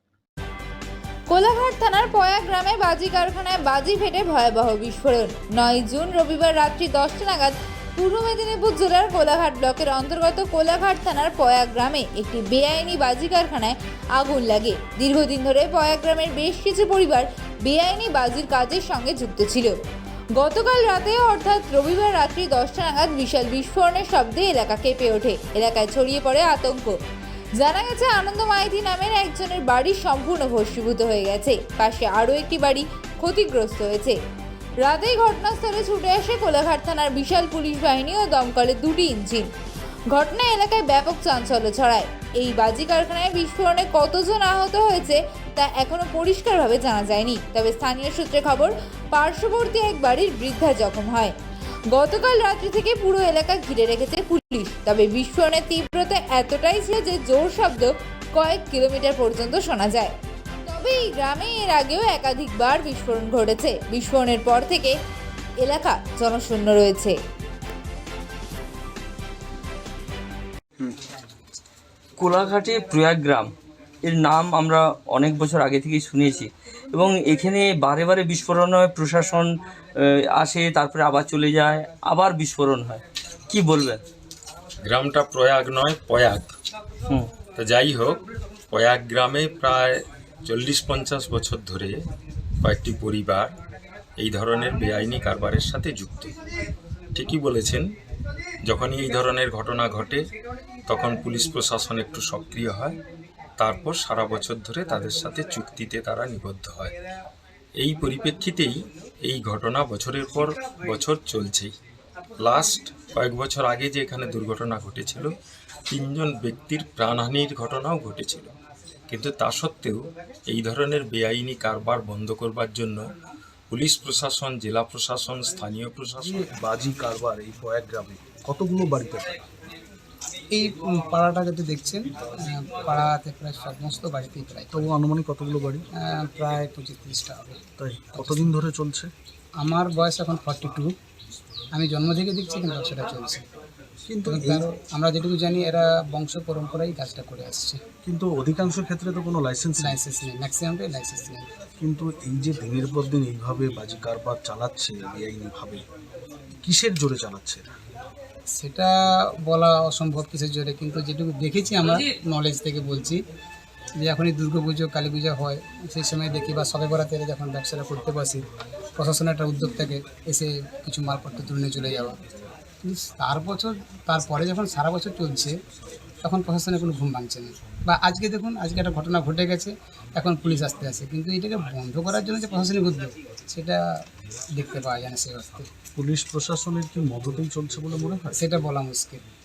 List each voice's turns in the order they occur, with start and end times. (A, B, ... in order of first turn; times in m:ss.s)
0:01.3-0:19.8 A
0:20.4-0:27.0 A
0:27.6-0:34.2 A
0:34.8-0:39.5 A
0:40.1-0:51.4 A
0:51.9-1:00.1 A
1:00.6-1:04.9 A
1:05.6-1:07.2 A
1:12.2-1:13.5 B
1:14.0-1:19.5 B
1:20.3-1:24.0 B
1:24.8-1:26.4 C
1:27.5-1:28.2 C
1:28.7-1:32.0 C
1:32.6-1:33.5 C
1:34.2-1:36.3 C
1:37.2-1:37.8 C
1:38.7-1:40.2 C
1:40.9-1:43.0 C
1:43.6-1:46.9 C
1:47.8-1:51.7 C
1:52.4-1:55.3 C
1:55.9-1:58.5 C
1:59.1-2:03.0 C
2:03.7-2:06.5 C
2:06.2-2:09.3 D
2:10.5-2:12.0 E
2:12.6-2:14.9 E
2:14.7-2:15.8 D
2:16.0-2:18.6 E
2:17.8-2:19.1 D
2:19.6-2:20.9 E
2:21.7-2:23.4 E
2:24.1-2:24.6 D
2:24.2-2:27.8 E
2:28.0-2:30.0 D
2:29.8-2:31.5 E
2:31.8-2:35.8 D
2:36.6-2:37.6 D
2:38.6-2:38.9 E
2:39.5-2:43.2 E
2:44.0-2:48.4 E
2:49.0-2:52.2 E
2:52.8-2:55.5 E
2:56.2-3:03.8 E
3:04.6-3:05.7 E
3:06.0-3:08.5 D
3:08.3-3:09.2 E